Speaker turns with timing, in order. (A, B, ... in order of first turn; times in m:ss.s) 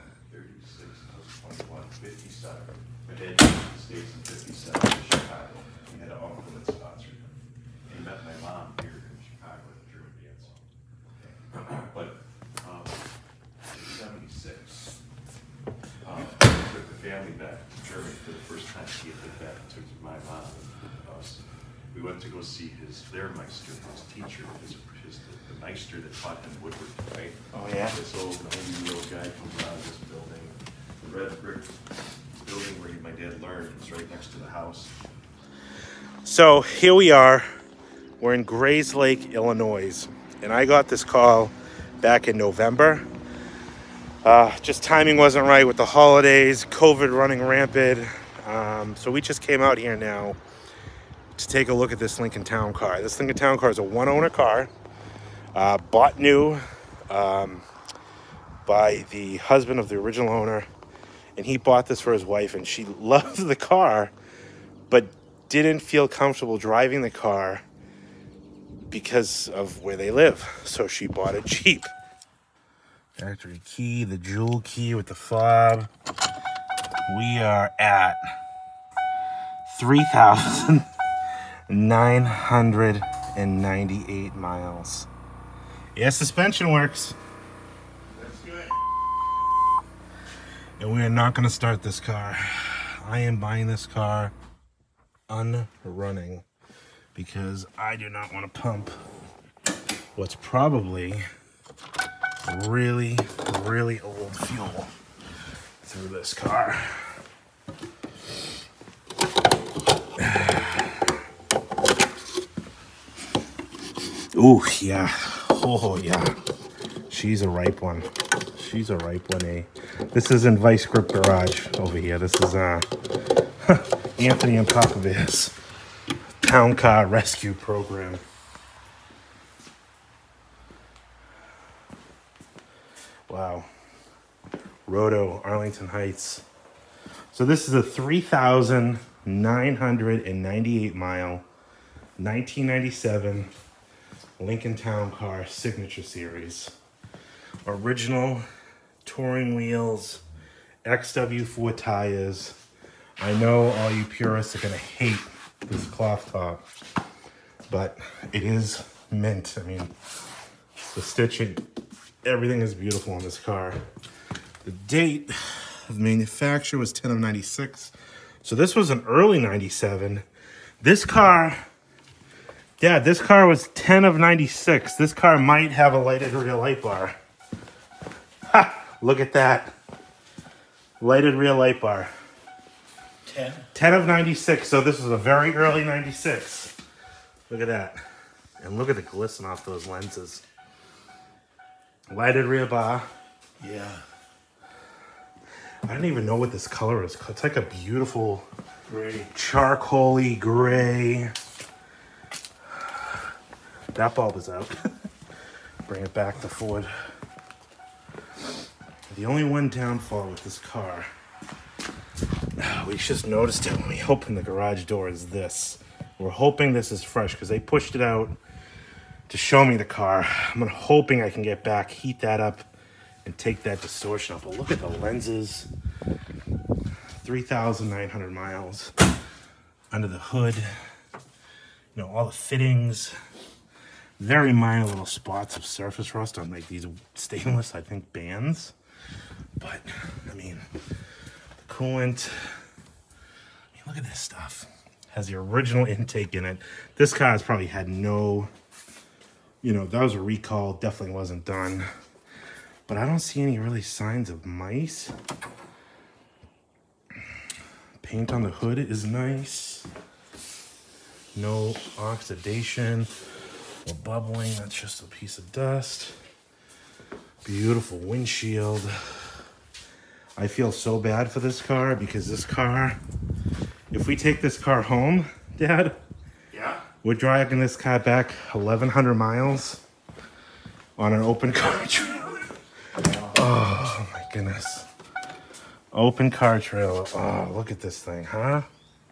0:00.3-0:10.6 A
0:11.5-0:13.0 A
0:13.7-0:14.9 A
0:16.0-0:31.8 A
0:27.5-0:28.0 B
0:32.3-0:34.9 A
0:36.2-0:37.5 C
0:38.2-0:43.0 C
0:44.2-0:50.4 C
0:51.4-0:54.7 C
0:55.5-0:57.6 C
0:58.6-1:00.7 C
1:01.4-1:04.1 C
1:04.9-1:07.6 C
1:08.9-1:11.9 C
1:13.2-1:15.9 C
1:17.1-1:18.2 C
1:19.7-1:20.8 C
1:21.7-1:25.1 C
1:26.0-1:27.2 C
1:28.1-1:28.8 B
1:30.8-1:34.3 C
1:35.3-1:36.4 C
1:37.1-1:38.9 C
1:40.2-1:41.2 C
1:42.4-1:44.9 C
1:45.8-1:47.1 C
1:50.2-1:50.8 C
1:54.3-1:56.3 C
1:57.1-2:02.9 C
2:03.6-2:05.5 C
2:06.4-2:08.2 C
2:13.3-2:13.7 C
2:14.8-2:16.4 C
2:17.3-2:21.4 C
2:22.2-2:23.5 C
2:24.4-2:26.7 C
2:27.6-2:28.4 C
2:29.0-2:30.2 C
2:30.8-2:32.6 C
2:33.2-2:36.6 C
2:37.7-2:39.9 C
2:40.9-2:41.6 C
2:42.2-2:43.8 C
2:44.6-2:47.9 C
2:48.4-2:50.2 C
2:50.8-2:51.6 C
2:52.8-2:57.2 C
2:58.5-2:59.7 C
3:01.0-3:02.1 C
3:03.2-3:03.7 B
3:03.7-3:06.7 C
3:07.5-3:08.0 C
3:08.6-3:10.4 C
3:12.1-3:13.1 C
3:13.6-3:14.0 B
3:15.8-3:18.5 C
3:18.9-3:19.3 B
3:19.3-3:21.3 C
3:23.9-3:24.9 C
3:25.8-3:26.9 C
3:29.1-3:31.1 C
3:32.6-3:38.4 C
3:39.3-3:42.7 C
3:43.2-3:45.7 C
3:47.2-3:48.9 C
3:49.9-3:50.7 C
3:51.9-3:53.1 C
3:54.2-3:58.7 C
3:59.6-4:00.6 C
4:01.6-4:02.6 C
4:03.7-4:08.5 C
4:09.6-4:11.9 C
4:12.9-4:15.1 C
4:18.0-4:19.9 C
4:21.3-4:23.1 C
4:23.8-4:26.2 C
4:27.4-4:29.3 C
4:30.4-4:33.0 C
4:33.9-4:36.0 C
4:36.5-4:36.8 B
4:37.0-4:39.8 C
4:41.0-4:42.5 C
4:43.0-4:43.4 B
4:43.3-4:44.9 C
4:45.9-4:48.7 C